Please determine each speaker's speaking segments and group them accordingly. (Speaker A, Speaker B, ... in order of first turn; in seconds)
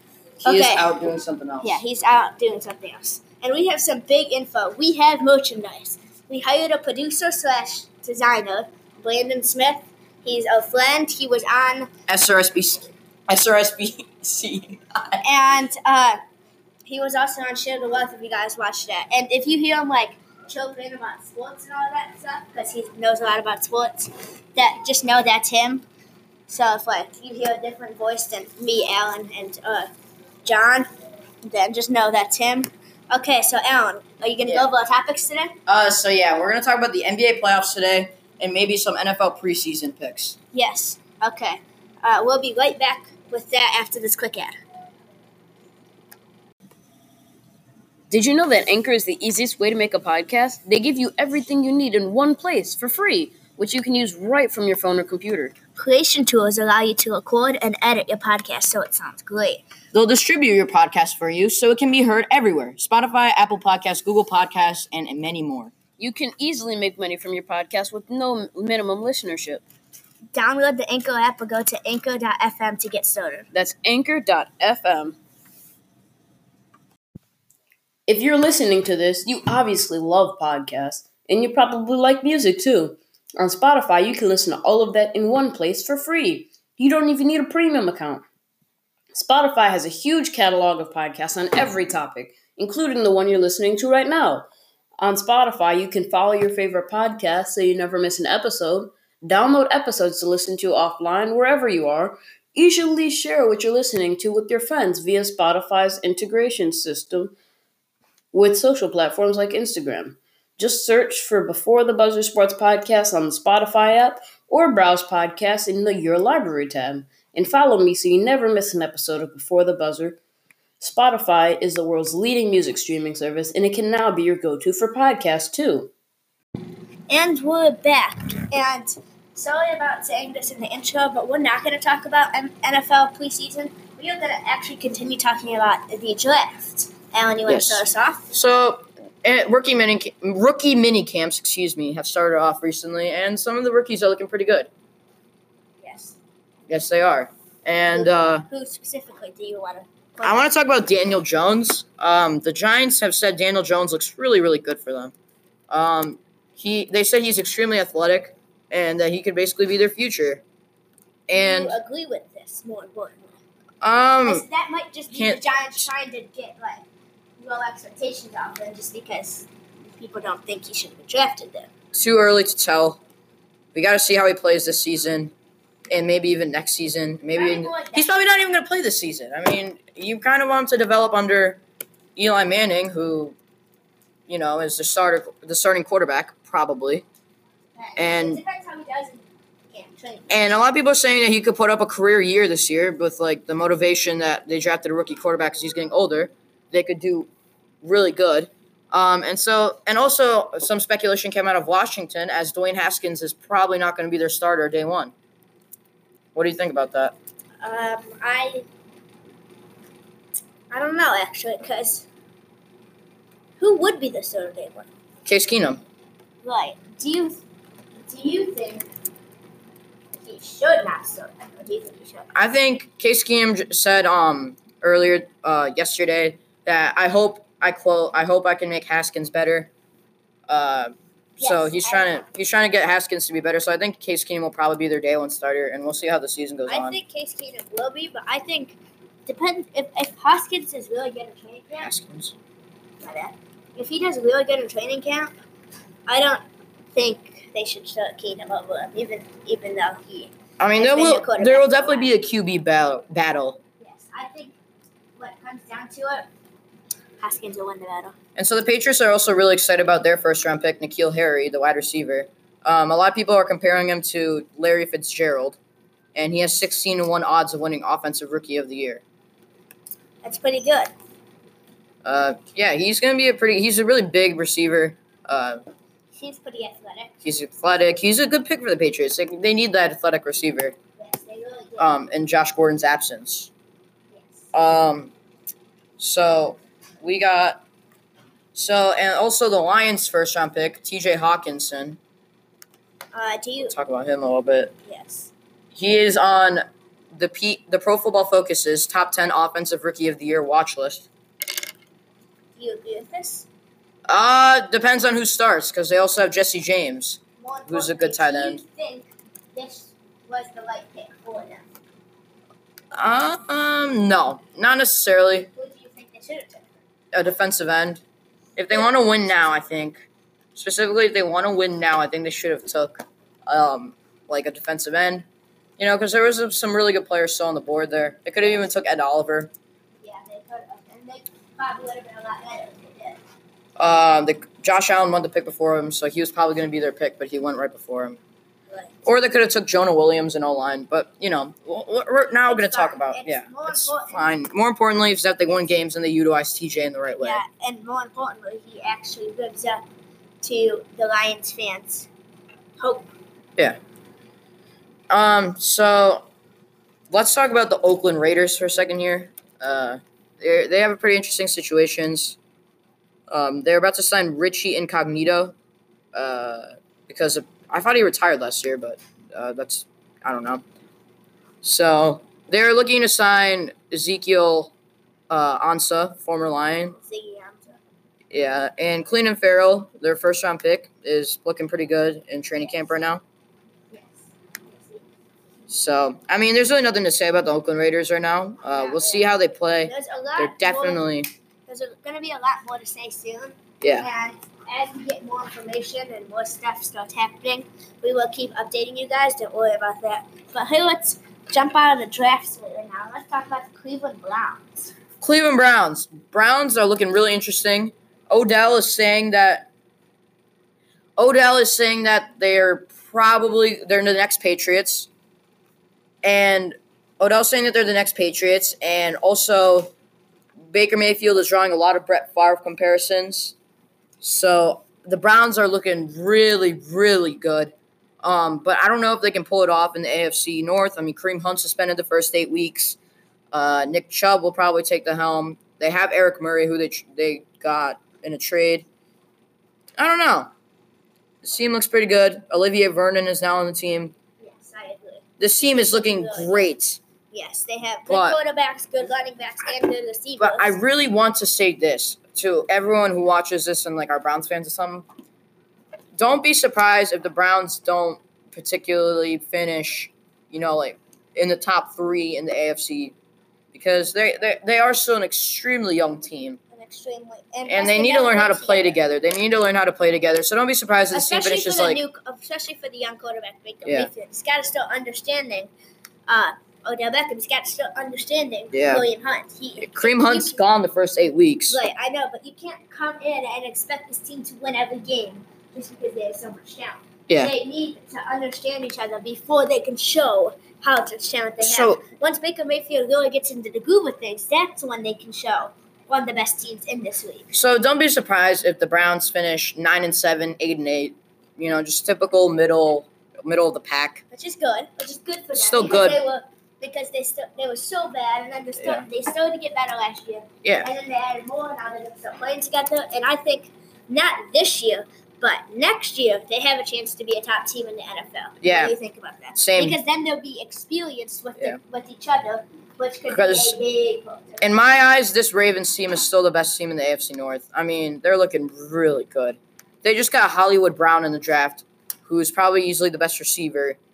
Speaker A: 0.4-0.9, 1.6-11.9, 15.2-16.2, 16.9-25.9, 26.5-29.9, 30.4-30.9, 31.4-35.6, 40.5-44.6, 55.8-59.6, 70.3-73.5, 127.1-138.3, 145.8-146.2, 147.9-150.5, 161.3-163.4, 164.3-166.8, 167.4-171.7, 177.3-178.2, 187.8-190.5, 207.6-208.7, 210.7-212.1, 213.6-214.9, 216.4-217.4, 218.1-218.9, 220.2-222.3, 231.4-232.2, 236.7-241.9, 243.0-245.3, 246.1-252.1, 253.8-254.6, 255.2-256.3, 257.2-258.1, 270.2-270.9, 276.1-277.1, 281.0-282.0, 284.1-284.5, 293.1-293.7, 294.9-295.3, 302.6-303.5, 307.4-311.7, 315.5-316.7, 330.0-333.2, 338.7-339.0, 342.5-344.3, 347.2-349.8, 350.4-352.1, 352.8-353.1, 377.0-377.8, 383.9-385.1, 388.7-389.3, 389.8-391.0, 391.7-404.9, 444.4-446.7, 447.3-450.7, 466.7-468.9, 471.1-475.7, 476.3-480.6, 481.7-497.5, 504.3-524.8
Speaker B: 0.4-1.8, 12.1-15.2, 35.7-40.4, 59.9-65.7, 137.5-144.7, 146.7-148.5, 150.2-155.1, 155.7-160.4, 161.3-161.8, 163.8-164.4, 165.1-165.9, 171.9-173.0, 173.8-175.3, 175.9-181.6, 182.2-183.4, 184.3-187.1, 188.0-188.4, 190.3-197.3, 197.8-205.1, 206.3-207.2, 215.3-215.8, 222.3-229.7, 230.5-237.0, 241.8-242.3, 250.6-253.6, 258.4-265.6, 266.2-269.0, 272.0-275.6, 277.2-280.8, 281.8-283.5, 284.5-285.1, 286.0-287.6, 288.5-292.0, 293.6-294.7, 295.8-296.6, 297.1-301.1, 304.1-308.6, 312.9-315.5, 317.1-318.0, 318.6-325.3, 325.8-329.5, 333.8-338.2, 339.1-347.4, 355.1-356.2, 357.1-362.4, 363.3-365.6, 366.1-370.6, 371.6-374.7, 375.3-377.0, 378.3-383.2, 385.7-391.3, 393.8-394.1, 405.2-409.7, 411.2-415.1, 416.2-419.9, 420.7-423.6, 424.2-433.0, 433.5-438.9, 440.0-440.5, 441.4-444.1, 445.4-447.0, 448.1-448.4, 450.4-455.1, 456.2-463.1, 463.7-466.6, 467.7-472.0, 473.9-474.1, 478.7-479.0, 479.8-481.8, 491.6-492.0, 497.5-504.2, 505.5-506.2, 508.8-509.1, 510.6-510.9, 518.6-518.9, 519.5-520.0, 523.3-523.8, 524.6-534.0
Speaker C: 48.1-55.5, 66.0-69.6, 73.5-75.2, 78.1-88.2, 89.1-94.5, 95.0-107.3, 108.3-120.2, 120.8-125.9